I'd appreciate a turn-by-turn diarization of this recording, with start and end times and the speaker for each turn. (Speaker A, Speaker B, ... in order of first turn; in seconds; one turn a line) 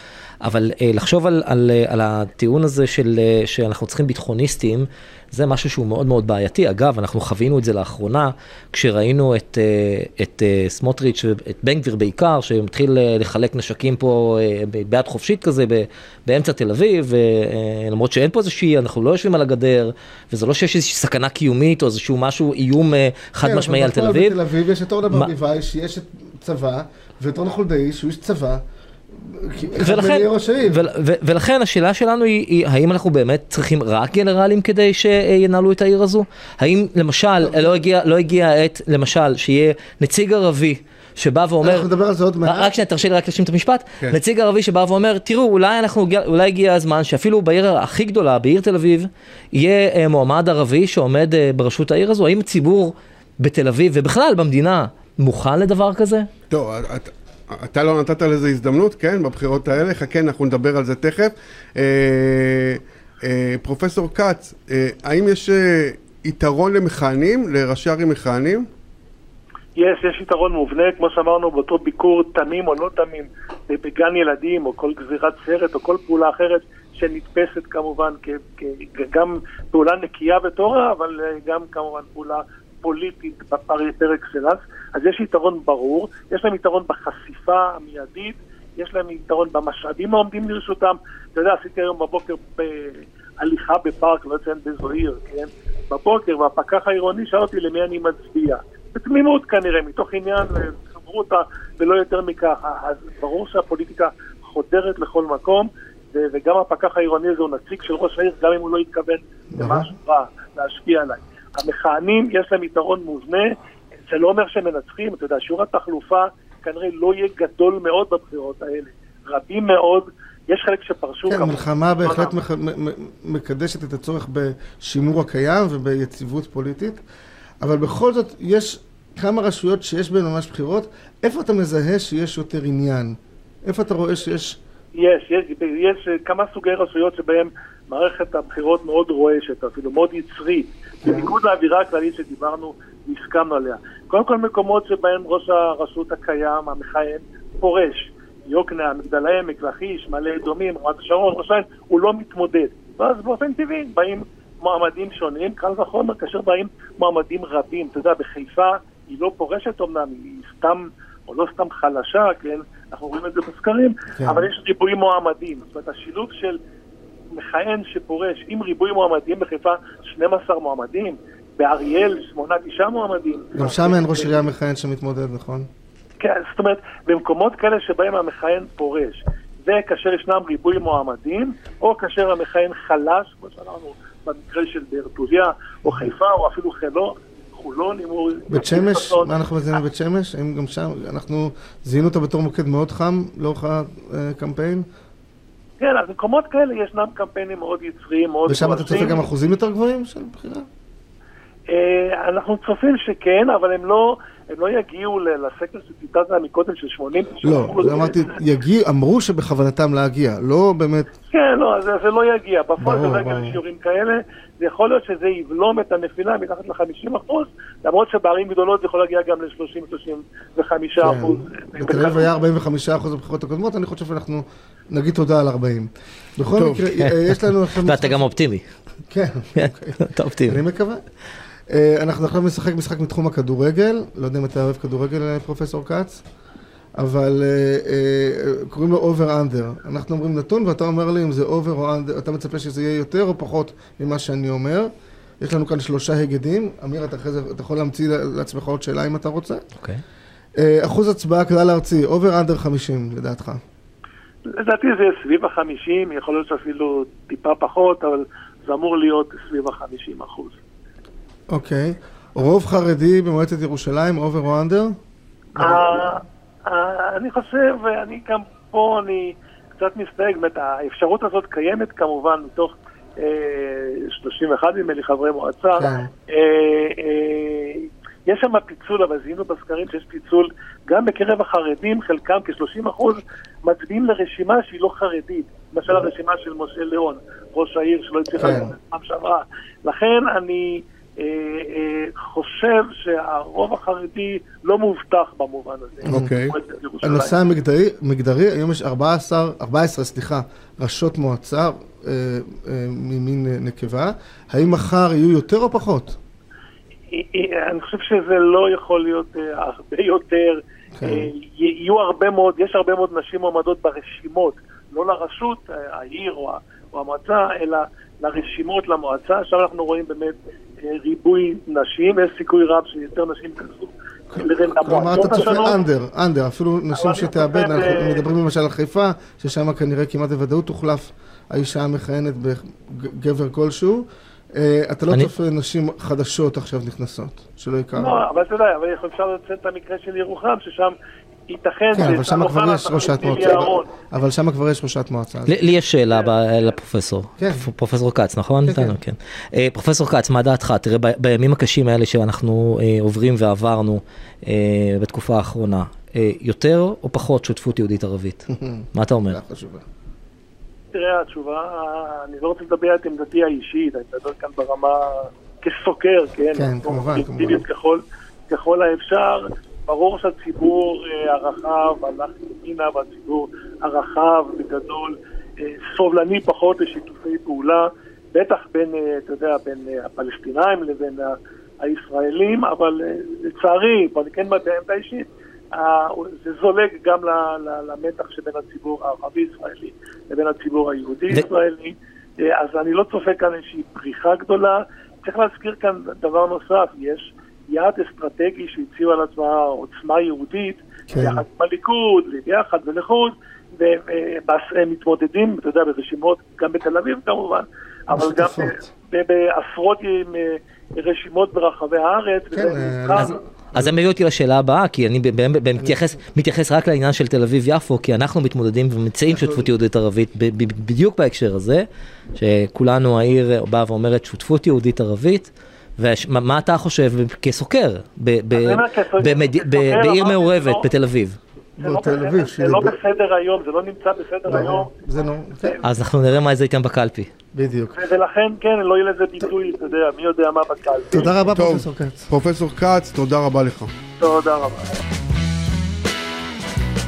Speaker A: 0.4-24.3
Speaker B: 23.4-30.8
Speaker A: 29.8-41.9
Speaker B: 41.6-42.7
Speaker A: 42.4-56.3
Speaker C: 56.5-68.7
Speaker D: 69.8-122.3
Speaker B: 109.5-109.9
Speaker B: 121.2-127.0
Speaker B: 127.6-134.6
Speaker D: 135.0-166.6
Speaker B: 141.0-141.3
Speaker B: 164.2-164.5
Speaker D: 167.3-174.3
Speaker B: 173.5-175.7
Speaker D: 176.2-189.3
Speaker B: 188.5-194.8
Speaker D: 195.8-199.2
Speaker B: 198.5-200.7
Speaker D: 201.7-208.3
Speaker B: 207.4-211.1
Speaker D: 211.3-222.3
Speaker B: 212.8-213.6
Speaker B: 221.0-228.3
Speaker C: 226.6-226.9
Speaker A: 227.8-228.6
Speaker B: 229.1-231.0
Speaker A: 229.5-230.6
Speaker B: 231.7-236.2
Speaker B: 237.0-244.9
Speaker B: 245.4-249.6
Speaker B: 250.6-253.6
Speaker D: 254.5-260.6
Speaker B: 261.5-265.0
Speaker D: 265.6-297.3
Speaker B: 265.6-266.1
Speaker B: 275.7-276.1
Speaker B: 288.4-288.7
Speaker C: 296.1-296.5
Speaker B: 297.0-306.2
Speaker D: 307.1-325.8
Speaker B: 311.0-311.3
Speaker B: 324.3-338.2
Speaker D: 326.9-328.2
Speaker D: 337.9-340.9
Speaker D: 341.5-343.9
Speaker B: 341.9-345.5
Speaker A: 345.5-359.4
Speaker B: 347.4-347.7
Speaker B: 348.6-349.0
Speaker B: 358.5-359.8
Speaker D: 360.9-413.4
Speaker B: 366.5-367.6
Speaker B: 401.1-401.4
Speaker B: 408.1-408.8
Speaker B: 412.5-413.9
Speaker A: 413.2-431.4
Speaker B: 419.3-419.6
Speaker D: 428.5-430.8
Speaker D: 431.8-434.9
Speaker B: 431.8-433.0
Speaker B: 434.5-435.8
Speaker A: 435.8-437.3
Speaker B: 437.5-437.9
Speaker D: 437.9-441.3
Speaker B: 441.1-442.3
Speaker C: 441.5-443.9
Speaker D: 444.2-445.0